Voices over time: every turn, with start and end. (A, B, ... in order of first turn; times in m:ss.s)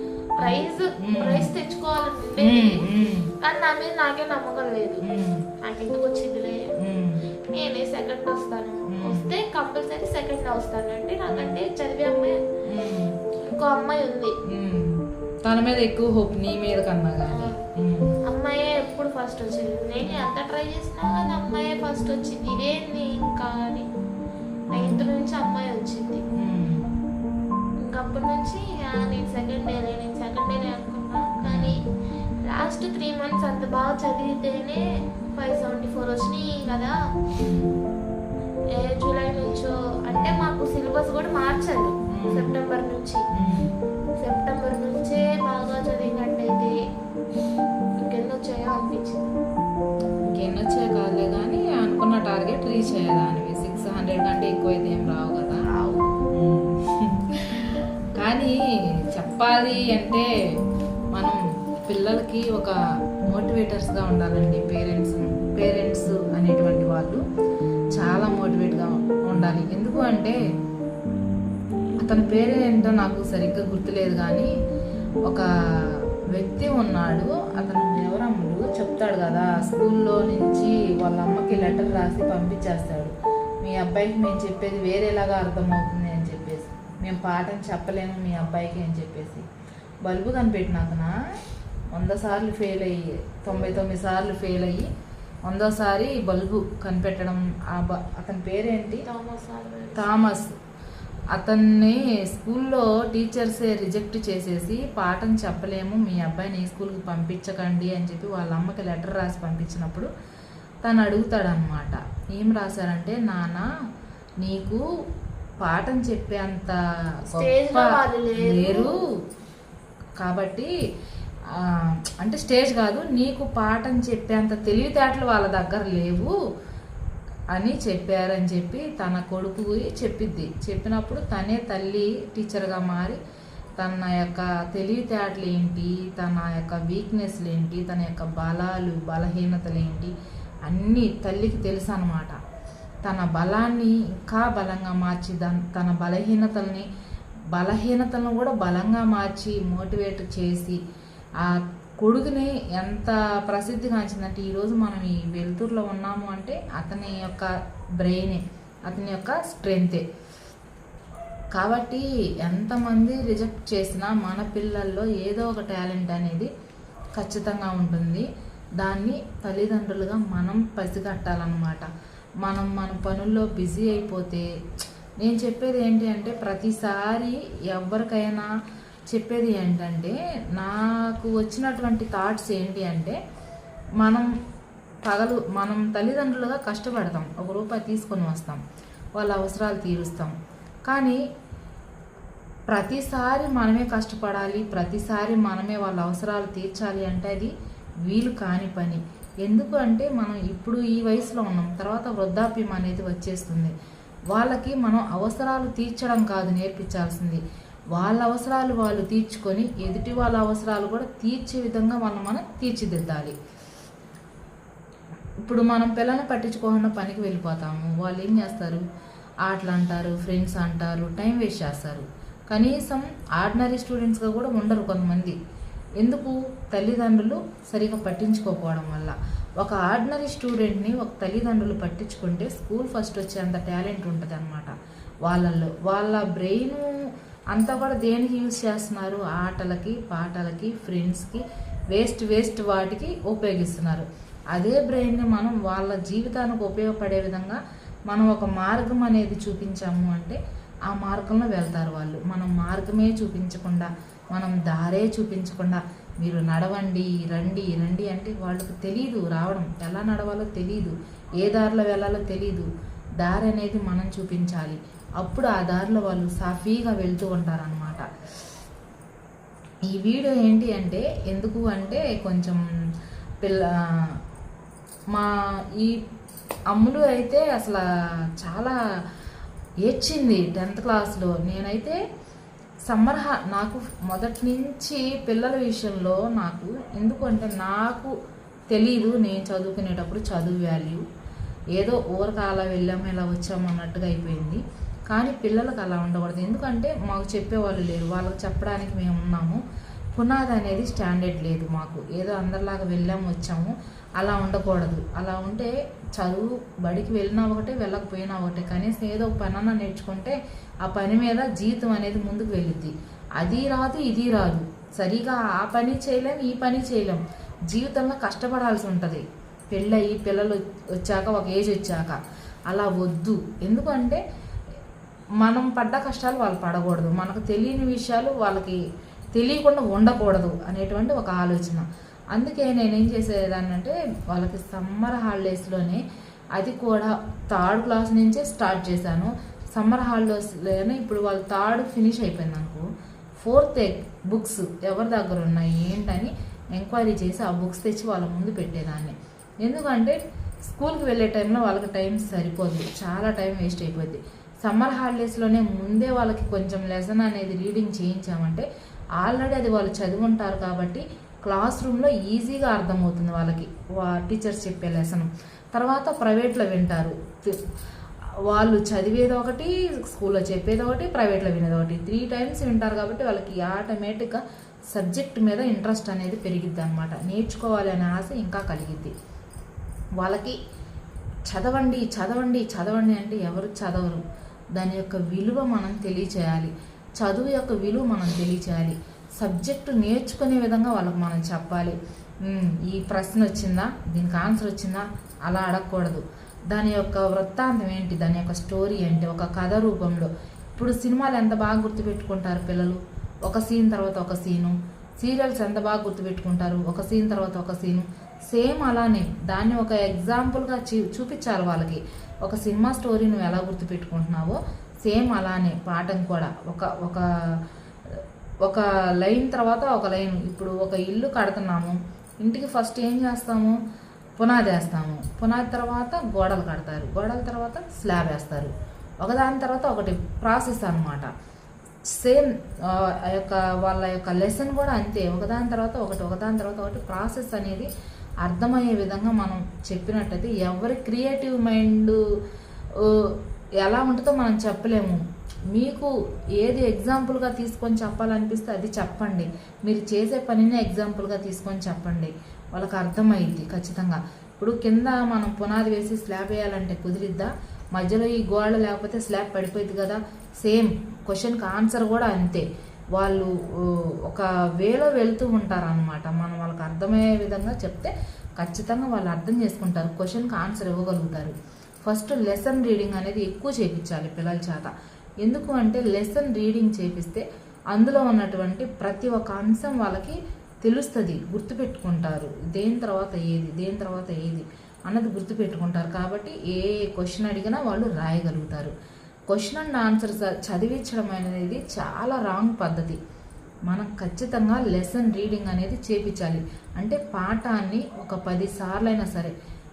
0:00.4-0:01.5 A
0:00.4-0:02.9 B
0:02.4-0:03.3 A
0:03.4-0:05.0 B
0:05.0-0:05.5 A
0:05.6-0:06.7 B
0:06.8-0:07.3 A
0:07.5-0:12.4 B
0:08.9-0:09.3 A
0:11.3-0:11.6 A
0:12.6-0:13.2 A
0:13.4-0:14.3 B
0:14.5-0:18.1 A
0:17.3-0:17.6 B
0:18.3-0:23.9 B
0:24.7-0:25.1 A
0:24.7-0:26.2 B
0:26.3-0:26.9 A
0:27.8-0:31.8 B
0:31.4-0:31.8 A
0:32.4-0:34.8 B
0:35.4-0:37.0 B
0:37.4-0:37.8 A
0:38.7-0:43.2 B
0:40.1-0:40.5 A
0:42.1-0:42.6 A
0:43.3-0:43.7 A
0:44.2-0:46.8 B
0:48.0-0:49.3 B
0:50.3-0:55.7 A
0:56.3-0:58.6 A
0:59.1-1:00.3 A
1:01.1-1:07.2 A
1:07.9-1:10.4 A
1:12.0-1:14.5 A
1:16.3-1:29.4 A
1:30.0-1:31.1 A
1:31.9-1:34.9 A
1:35.5-1:39.0 A
1:39.0-1:40.4 B
1:40.0-1:40.5 A
1:41.3-1:50.1 A
1:50.8-1:53.7 A
1:54.4-1:54.8 A
1:55.6-1:56.8 A
1:57.3-1:59.0 A
1:57.3-1:58.9 B
2:00.2-2:00.7 A
2:01.5-2:06.3 A
2:07.5-2:13.2 A
2:13.8-2:20.1 A
2:20.7-2:22.4 A
2:23.0-2:26.9 A
2:27.5-2:30.8 A
2:31.4-2:40.0 A
2:41.5-2:46.5 A
2:47.2-2:48.3 A
2:48.8-2:51.9 A
2:52.4-2:54.5 A
2:55.2-2:58.5 A
2:59.1-3:03.2 A
3:04.0-3:04.3 A
3:05.0-3:08.6 A
3:09.2-3:10.3 A
3:10.9-3:11.2 A
3:12.7-3:17.5 A
3:18.0-3:23.7 A
3:24.3-3:27.4 A
3:27.9-3:33.3 A
3:35.4-3:38.8 A
3:39.4-3:45.4 A
3:46.0-3:54.7 A
3:55.3-4:22.7 A
4:23.2-4:28.1 A
4:29.9-4:32.6 A
4:33.4-4:34.1 A
4:35.1-4:36.0 A
4:36.7-4:37.8 A
4:38.4-4:38.8 A
4:39.8-4:42.0 A
4:42.9-4:48.1 A
4:48.7-4:51.0 A
4:51.8-4:59.6 A
5:00.1-5:24.2 A
5:25.4-5:28.8 A
5:29.3-5:36.0 A
5:36.6-5:42.9 A
5:43.4-5:58.6 A
5:59.2-6:07.6 A
6:08.5-6:19.1 A
6:20.2-6:20.6 A
6:21.5-6:24.2 A
6:24.7-6:57.2 A
6:58.1-7:03.8 A
7:04.4-7:11.3 A
7:12.1-7:17.9 A
7:18.4-7:22.2 A
7:23.0-7:25.2 A
7:25.7-7:54.9 A
7:55.4-8:08.9 A
8:09.5-8:13.2 A
8:13.9-8:19.5 A